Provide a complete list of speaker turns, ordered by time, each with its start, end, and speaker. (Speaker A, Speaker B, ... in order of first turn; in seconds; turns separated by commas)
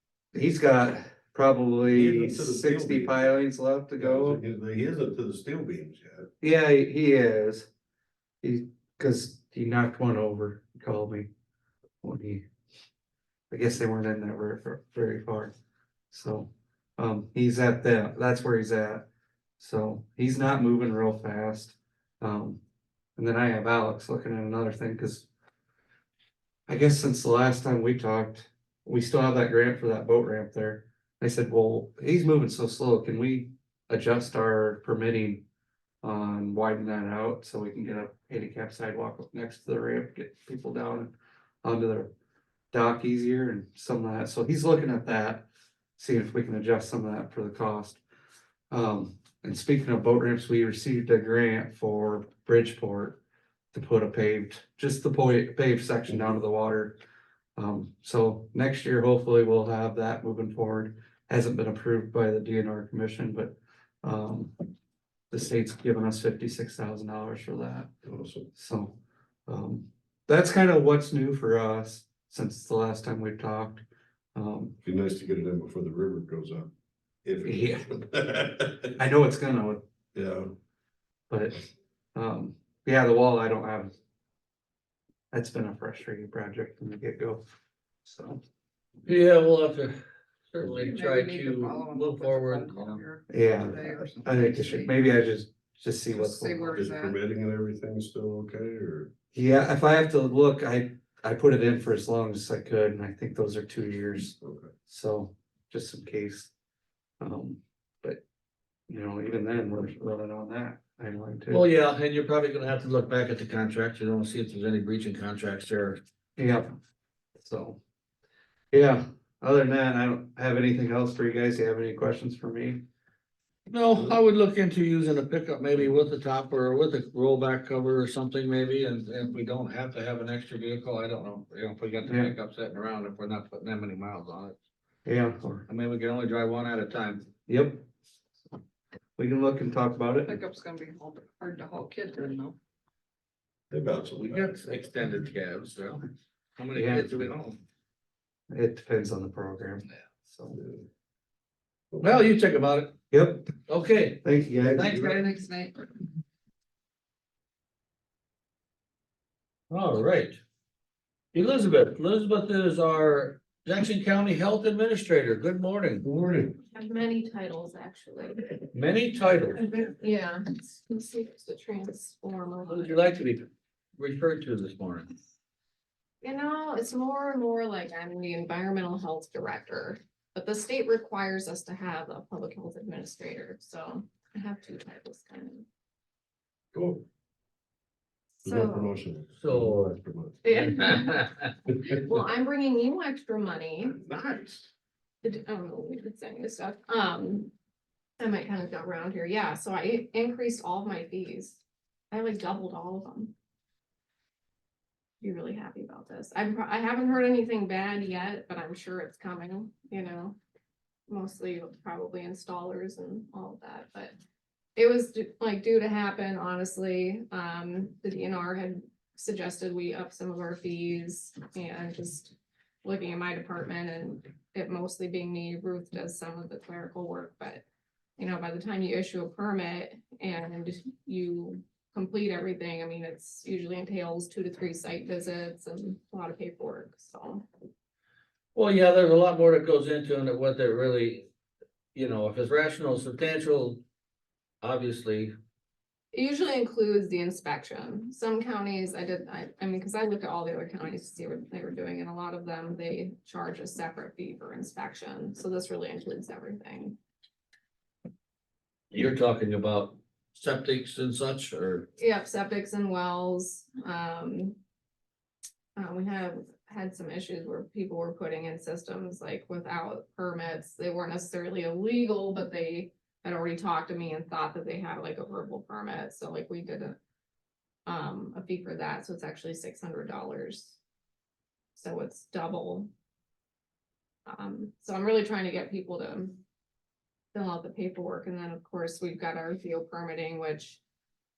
Speaker A: 0.3-4.4, Speaker B: 1.9-3.2, Speaker B: 4.0-6.3, Speaker A: 6.4-7.7, Speaker A: 8.4-11.3, Speaker A: 12.0-12.5, Speaker A: 13.5-15.5, Speaker A: 16.1-19.1, Speaker A: 19.6-22.6, Speaker A: 23.2-25.3, Speaker A: 26.7-35.5, Speaker A: 36.0-41.1, Speaker A: 41.6-42.1, Speaker A: 42.7-45.5, Speaker A: 46.0-48.0, Speaker A: 48.7-53.2, Speaker A: 53.7-57.0, Speaker A: 57.6-64.5, Speaker A: 65.3-67.9, Speaker B: 68.1-68.5, Speaker A: 68.5-74.8, Speaker B: 74.8-76.7, Speaker B: 77.2-78.9, Speaker A: 77.5-77.9, Speaker A: 79.0-79.8, Speaker B: 80.2-80.5, Speaker A: 81.3-81.6, Speaker A: 82.2-83.9, Speaker A: 85.3-87.4, Speaker A: 88.0-88.4, Speaker C: 89.0-90.0, Speaker C: 90.5-93.0, Speaker D: 90.7-94.9, Speaker A: 93.3-96.8, Speaker D: 96.1-97.2, Speaker B: 96.8-99.1, Speaker A: 99.3-104.4, Speaker B: 104.4-104.7, Speaker A: 104.9-106.5, Speaker A: 107.2-108.2, Speaker A: 108.9-111.7, Speaker C: 111.5-116.0, Speaker A: 116.4-116.7, Speaker A: 117.4-117.8, Speaker A: 118.7-122.8, Speaker C: 123.7-134.6, Speaker A: 132.0-132.3, Speaker A: 135.1-135.7, Speaker C: 135.7-137.3, Speaker A: 137.5-137.9, Speaker A: 139.2-140.4, Speaker D: 140.3-142.6, Speaker B: 143.7-144.6, Speaker C: 144.2-147.6, Speaker A: 146.7-147.3, Speaker A: 148.5-150.6, Speaker B: 151.9-152.3, Speaker C: 152.0-152.9, Speaker A: 153.1-153.5, Speaker C: 153.7-155.4, Speaker A: 154.2-155.0, Speaker D: 155.1-155.7, Speaker C: 159.7-160.4, Speaker C: 161.3-166.1, Speaker B: 166.0-166.6, Speaker E: 166.6-168.6, Speaker C: 168.7-169.6, Speaker E: 169.6-173.1, Speaker C: 172.7-173.4, Speaker C: 174.0-175.2, Speaker E: 176.2-185.7, Speaker B: 186.7-187.1, Speaker B: 188.4-190.4, Speaker E: 188.4-188.9, Speaker C: 189.4-190.0, Speaker E: 190.4-194.0, Speaker C: 190.9-191.3, Speaker B: 194.0-194.7, Speaker E: 195.2-197.5, Speaker E: 198.2-203.3, Speaker E: 205.2-210.4, Speaker E: 211.1-214.2, Speaker E: 214.8-227.6, Speaker E: 228.2-237.5, Speaker C: 238.6-241.3, Speaker C: 241.9-243.8, Speaker C: 244.6-245.3, Speaker E: 246.1-257.0, Speaker C: 258.9-261.9, Speaker E: 262.0-264.6, Speaker E: 265.8-277.0, Speaker E: 277.9-280.8, Speaker E: 281.8-282.9, Speaker E: 284.3-286.4, Speaker E: 287.3-290.8